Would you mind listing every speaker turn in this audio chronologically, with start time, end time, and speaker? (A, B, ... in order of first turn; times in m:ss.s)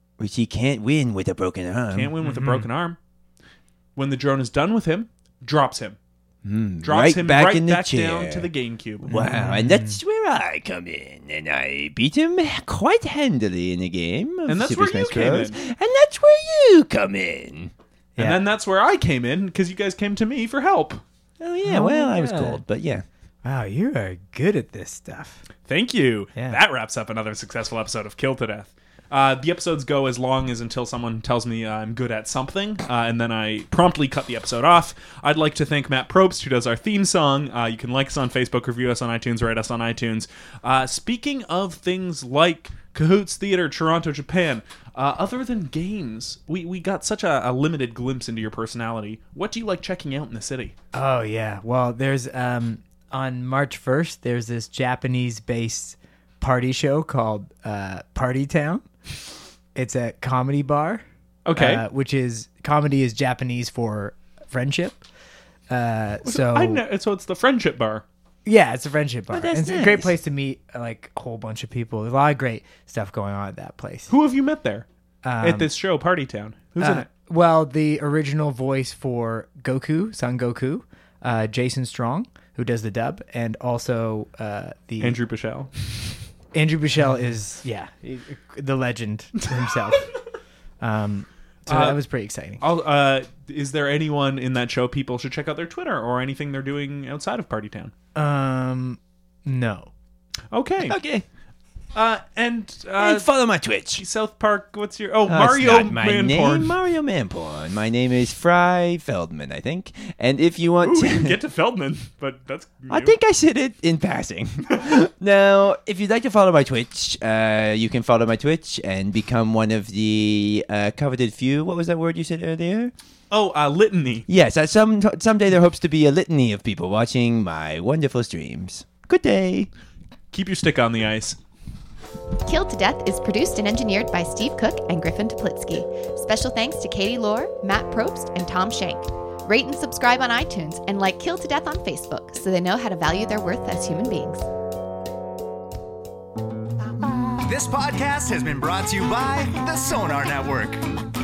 0:00.2-0:02.1 A
0:01.9-0:03.0 B
0:02.2-0:02.7 C
0:04.0-0:06.0 B
0:06.4-0:08.5 A
0:06.8-0:09.1 B
0:09.1-0:17.7 A
0:09.1-0:10.0 C
0:14.5-0:15.6 B
0:18.2-0:21.0 B
0:21.4-0:23.0 A
0:21.6-0:22.6 C
0:23.4-0:25.4 C
0:25.7-0:50.8 B
0:50.9-0:58.8 C
0:59.8-1:01.0 C
1:01.5-1:01.8 B
1:01.6-1:05.0 C
1:05.7-1:06.8 C
1:06.2-1:08.0 B
1:08.5-1:14.1 C
1:09.3-1:10.2 A
1:14.1-1:14.9 B
1:15.2-1:15.7 C
1:15.4-1:17.1 B
1:16.8-1:25.2 C
1:25.0-1:25.9 B
1:26.5-1:30.1 C
1:30.8-1:32.6 C
1:31.7-1:32.0 B
1:32.6-1:37.9 B
1:38.2-1:39.9 C
1:40.5-1:41.0 B
1:40.8-1:41.2 A
1:42.0-1:43.3 B
1:43.0-1:44.0 A
1:44.0-1:46.8 B
1:45.3-1:51.4 A
1:50.8-1:53.2 B
1:52.9-2:02.9 A
2:03.3-2:04.3 B
2:04.3-2:09.7 A
2:10.3-2:11.4 B
2:12.5-2:24.4 D
2:27.4-2:30.8 E